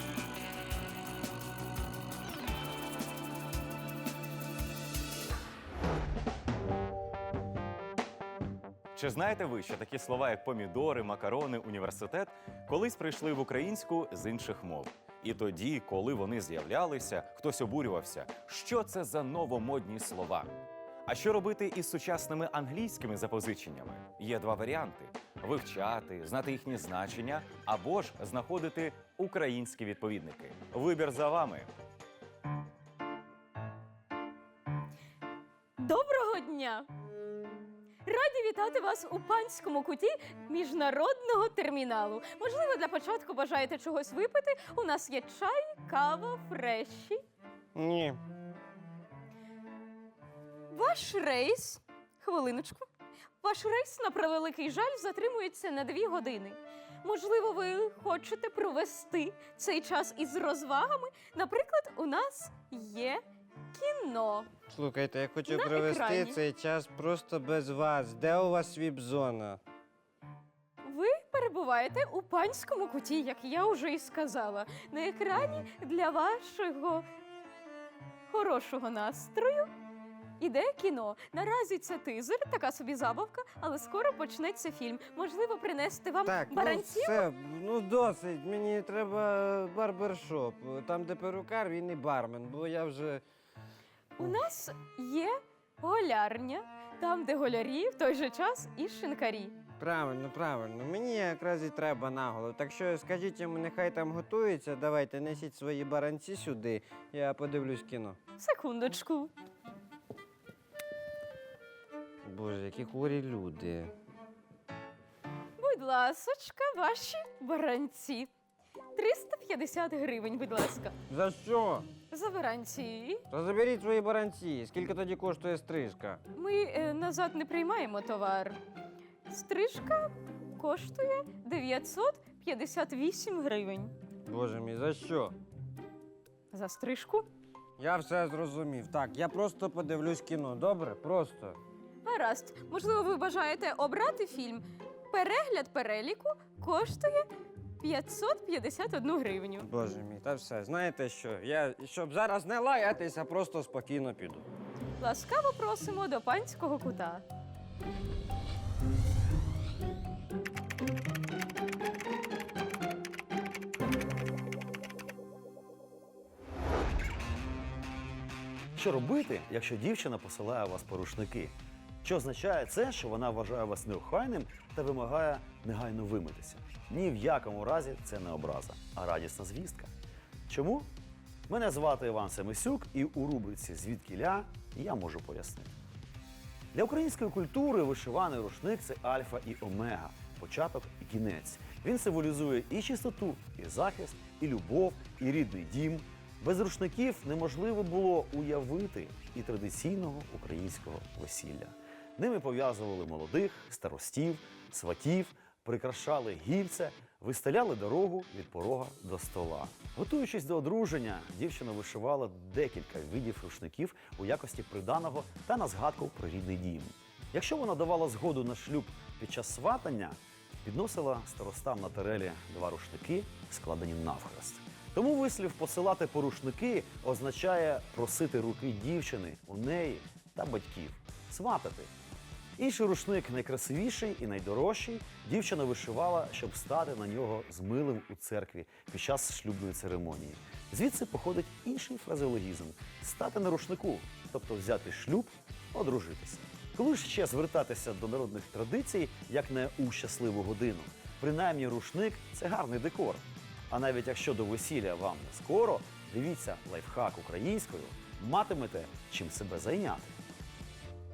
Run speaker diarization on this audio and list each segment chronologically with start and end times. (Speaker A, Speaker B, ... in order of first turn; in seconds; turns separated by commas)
Speaker A: 8.9-20.6, Speaker A: 21.1-31.7, Speaker B: 35.8-36.9, Speaker B: 38.1-47.2, Speaker C: 47.8-48.2, Speaker B: 50.7-52.9, Speaker B: 53.4-63.2, Speaker B: 63.7-64.5, Speaker C: 64.7-69.6, Speaker B: 65.5-66.4, Speaker B: 70.8-77.0, Speaker B: 78.3-79.7, Speaker B: 80.4-87.3, Speaker C: 86.2-93.2, Speaker B: 94.2-99.5, Speaker C: 99.8-108.2, Speaker B: 108.4-109.3, Speaker C: 112.3-113.9, Speaker B: 115.6-118.3, Speaker B: 119.0-120.9, Speaker C: 121.1-121.9, Speaker B: 122.1-123.2, Speaker C: 123.3-126.2, Speaker B: 126.3-128.6, Speaker B: 129.3-133.9, Speaker C: 134.3-135.3, Speaker B: 136.5-137.3, Speaker C: 137.8-141.6, Speaker B: 142.1-147.3, Speaker B: 147.8-149.7, Speaker C: 149.6-154.5, Speaker B: 155.0-157.2, Speaker D: 168.8-179.9, Speaker D: 180.5-180.9, Speaker D: 181.5-185.7, Speaker D: 186.7-231.9, Speaker D: 232.6-260.1